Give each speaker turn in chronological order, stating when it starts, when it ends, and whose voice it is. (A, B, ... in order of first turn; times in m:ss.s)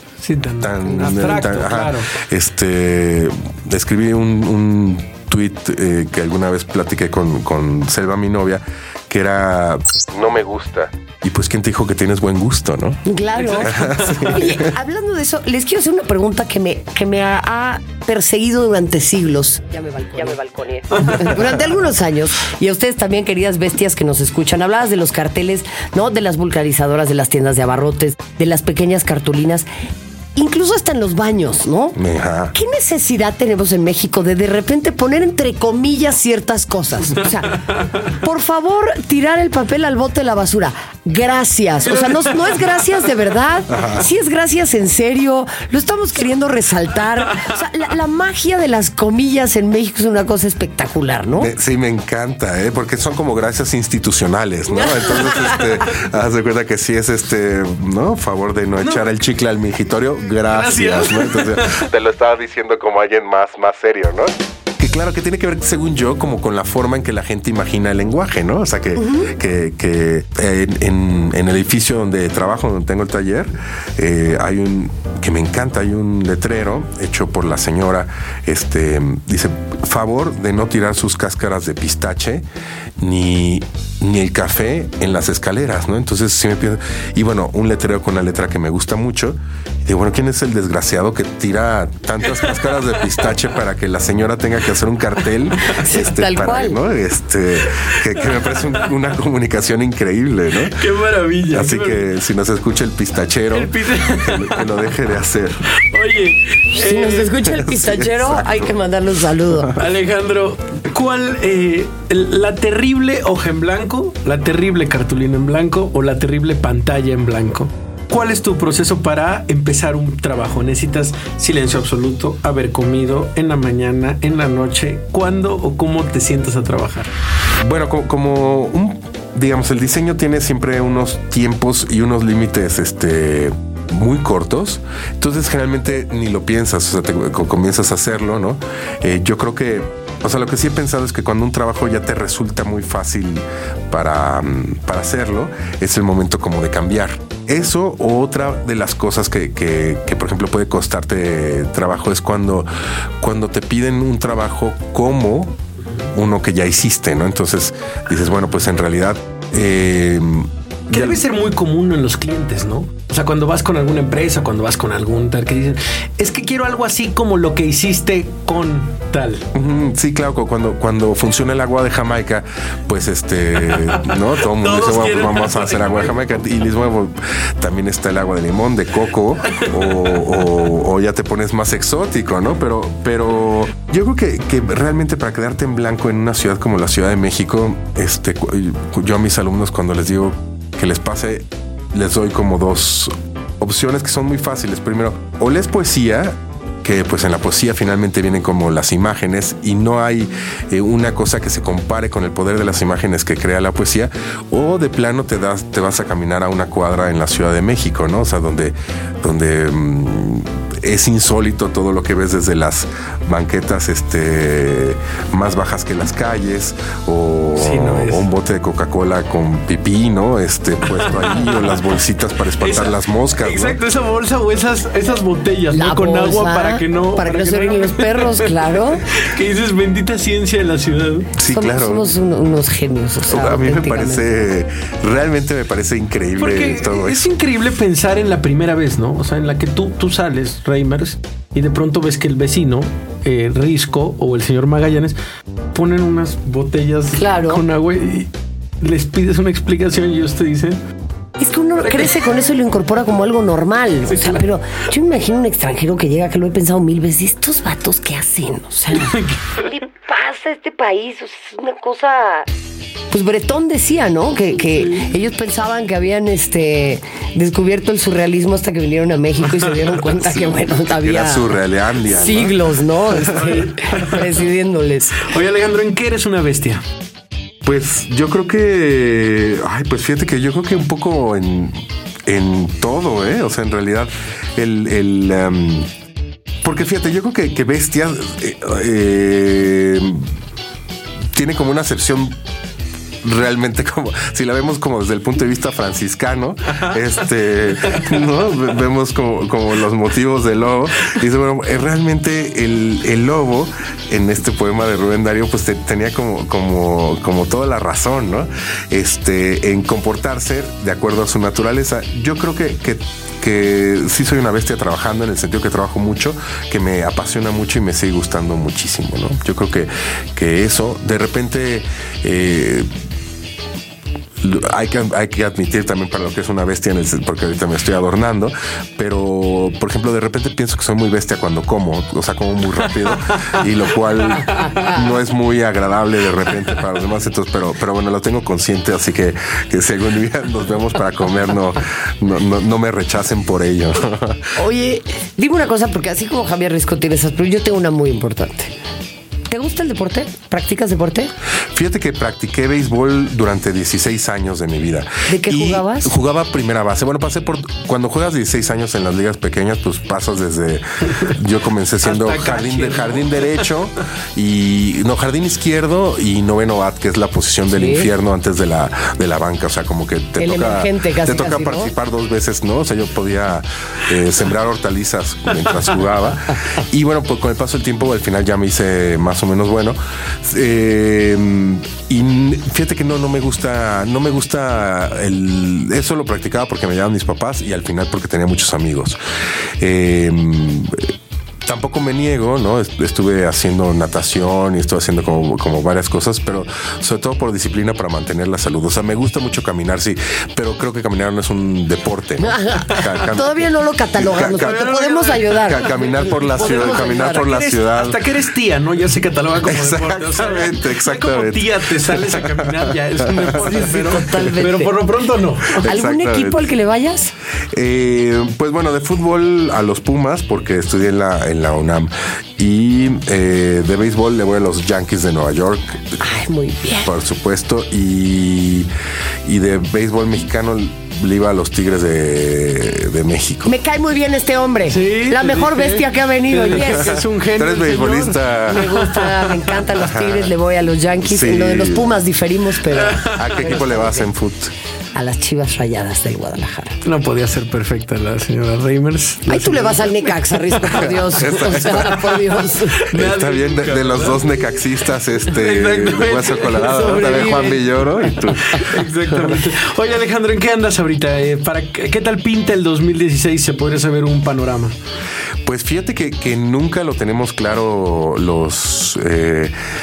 0:00.2-0:02.1 A
0:00.6-0:13.0 B
0:13.0-0:29.7 C
0:13.4-0:14.4 A
0:13.6-0:14.7 B
0:30.4-0:32.0 C
0:32.0-0:32.5 B
0:32.5-0:51.5 C
0:41.9-0:42.8 A
0:43.7-0:44.1 B
0:51.4-1:22.4 B
0:58.8-0:59.1 A
1:00.5-1:01.9 A
1:09.0-1:09.3 C
1:23.0-1:40.9 B
1:35.6-1:36.8 C
1:37.7-1:38.9 A
1:40.6-1:42.1 A
1:41.5-1:45.6 B
1:43.5-1:44.9 A
1:45.7-1:47.3 A
1:46.7-1:49.8 C
1:47.4-1:48.7 B
1:49.5-1:49.8 B
1:49.8-2:07.1 A
2:07.6-2:32.7 B
2:33.2-2:35.6 B
2:36.1-2:41.2 B
2:40.9-2:49.5 A
2:49.5-3:43.8 B
2:53.7-2:56.2 A
2:59.5-3:00.2 A
3:37.6-3:38.3 A
3:40.8-3:41.8 A
3:42.6-3:51.3 A
3:45.7-3:49.1 C
3:51.4-3:52.1 B
3:51.5-3:54.3 C
3:53.3-3:57.3 B
3:56.4-4:05.2 A
4:05.7-4:10.8 A
4:07.2-4:07.6 C
4:11.4-4:22.5 C
4:14.1-4:14.5 A
4:18.9-4:19.6 A
4:23.1-4:35.3 C
4:30.1-4:32.6 B
4:33.3-4:34.2 A
4:35.2-4:36.8 A
4:37.6-4:45.9 B
4:46.6-4:50.3 B
4:51.3-4:52.4 B
4:53.2-5:22.9 B
5:24.4-5:44.5 B
5:34.5-5:34.8 A
5:44.6-5:48.7 C
5:49.5-5:51.3 C
5:51.7-6:29.2 B
5:55.3-5:56.1 C
6:02.0-6:03.7 A
6:07.7-6:08.1 C
6:10.4-6:11.9 C
6:29.8-6:31.1 B
6:31.6-6:43.6 B
6:42.4-6:45.9 C
6:44.2-6:44.8 B
6:44.4-6:55.9 A
6:45.6-6:48.2 B
6:46.6-6:47.5 C
6:49.6-6:54.5 B
6:53.5-6:55.0 C
6:55.8-6:56.7 B
6:55.8-6:57.3 C
6:57.7-7:06.2 B
7:06.2-7:07.1 C
7:07.0-7:08.9 B
7:09.4-7:13.7 B
7:13.6-7:17.2 C
7:14.9-7:19.8 A
7:16.7-7:18.9 B
7:18.7-7:24.3 C
7:20.0-7:20.5 B
7:21.3-7:22.2 B
7:23.0-7:23.4 A
7:23.3-7:24.7 B
7:25.2-7:27.0 C
7:27.0-7:31.2 A
7:29.5-7:33.1 C
7:31.0-7:32.4 B
7:33.0-7:34.8 A
7:33.1-7:39.6 B
7:35.4-7:45.0 A
7:45.7-7:49.7 B